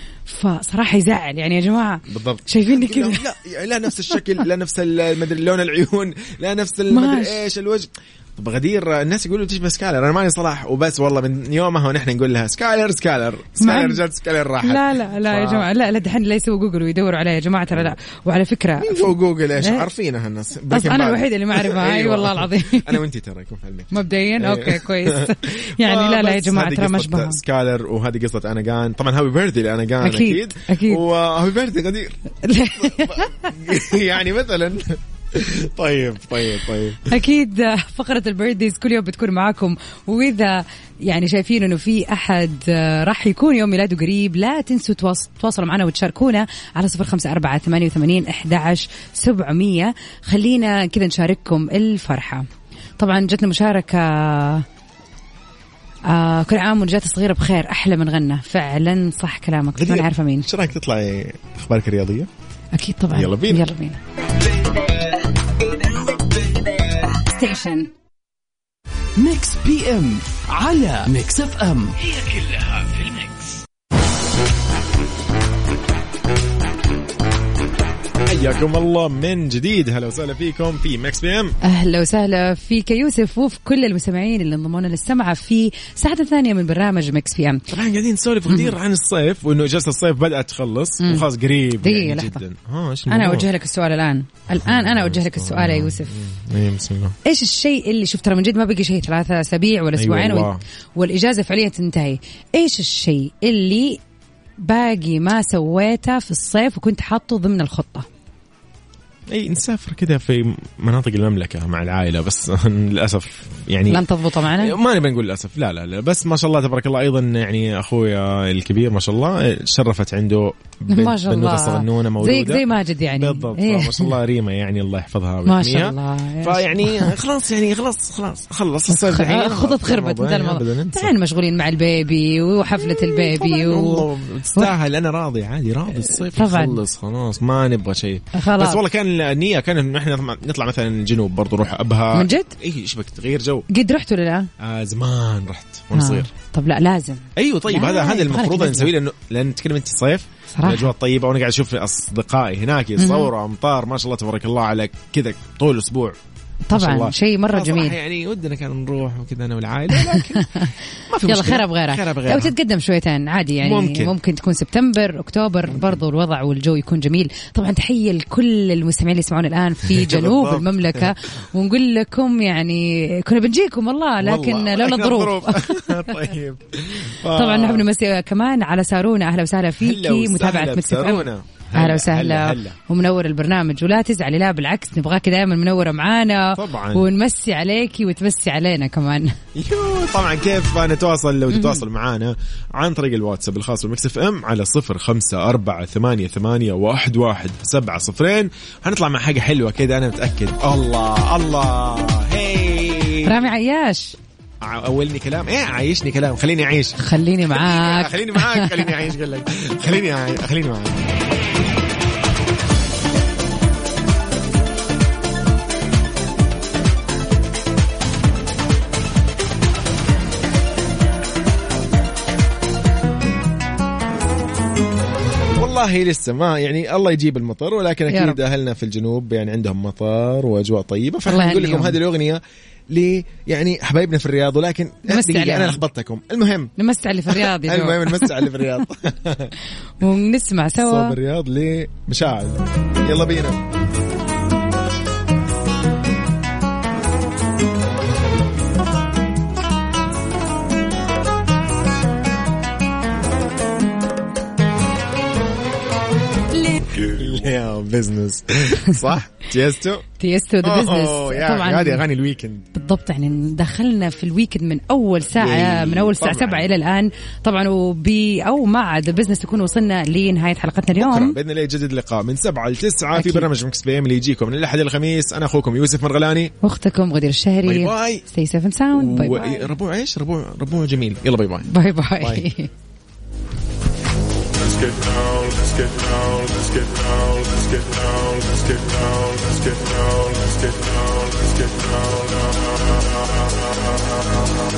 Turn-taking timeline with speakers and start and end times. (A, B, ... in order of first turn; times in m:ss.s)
0:00.2-0:03.3 A
0:02.1-0:15.7 B
0:06.9-0:07.4 A
0:13.6-0:14.0 A
0:14.6-0:19.9 A
0:18.8-0:32.2 B
0:20.7-0:23.0 A
0:23.9-0:27.4 A
0:30.0-0:31.0 A
0:32.4-0:33.5 A
0:32.7-0:37.1 B
0:37.0-0:52.5 A
0:53.0-0:54.6 A
0:56.0-1:00.5 A
0:59.8-1:02.3 B
1:02.7-1:04.0 A
1:03.1-1:03.7 B
1:07.2-1:07.9 A
1:09.2-1:13.5 C
1:18.2-1:21.5 B
1:21.6-1:27.6 A
1:27.7-1:33.5 B
1:28.5-1:28.7 A
1:31.0-1:31.2 A
1:31.8-1:32.4 A
1:33.1-1:36.1 A
1:34.5-1:37.2 B
1:37.2-1:44.0 A
1:40.0-1:40.6 B
1:44.6-1:48.1 A
1:49.3-2:11.1 B
1:53.9-1:54.8 A
2:00.9-2:04.2 A
2:05.4-2:07.1 A
2:08.9-2:14.7 A
2:12.8-2:23.6 B
2:16.0-2:16.8 A
2:18.3-2:18.8 A
2:22.1-2:22.5 A
2:23.7-2:24.5 A
2:24.6-2:26.3 B
2:25.9-2:28.9 A
2:27.4-2:36.2 B
2:30.5-2:30.9 A
2:33.0-2:33.3 A
2:36.7-2:38.0 A
2:36.7-2:42.5 B
2:39.9-2:56.1 A
2:43.6-2:44.1 B
2:45.7-2:46.0 B
2:49.8-2:51.1 B
2:54.2-2:57.9 B
2:57.3-3:09.4 A
2:59.8-3:02.8 B
3:06.6-3:07.0 B
3:09.6-3:23.5 B
3:11.5-3:11.8 A
3:23.2-3:24.2 A
3:24.6-3:31.0 B
3:27.0-3:28.9 A
3:45.5-3:56.7 B
3:48.1-3:48.4 A
3:51.2-3:52.0 A
3:55.1-3:55.8 A
3:56.8-3:58.8 A
3:57.3-3:59.5 B
4:00.0-4:01.2 A
4:00.7-4:03.6 B
4:16.7-4:17.0 A
4:16.9-4:20.0 B
4:20.2-4:22.0 A
4:20.6-4:22.7 B
4:22.7-4:31.3 A
4:25.3-4:26.7 B
4:30.9-4:36.5 B
4:33.1-4:33.5 A
4:36.6-4:39.6 A
4:37.6-4:38.2 B
4:38.9-4:42.4 B
4:41.7-4:42.7 A
4:44.6-4:53.6 B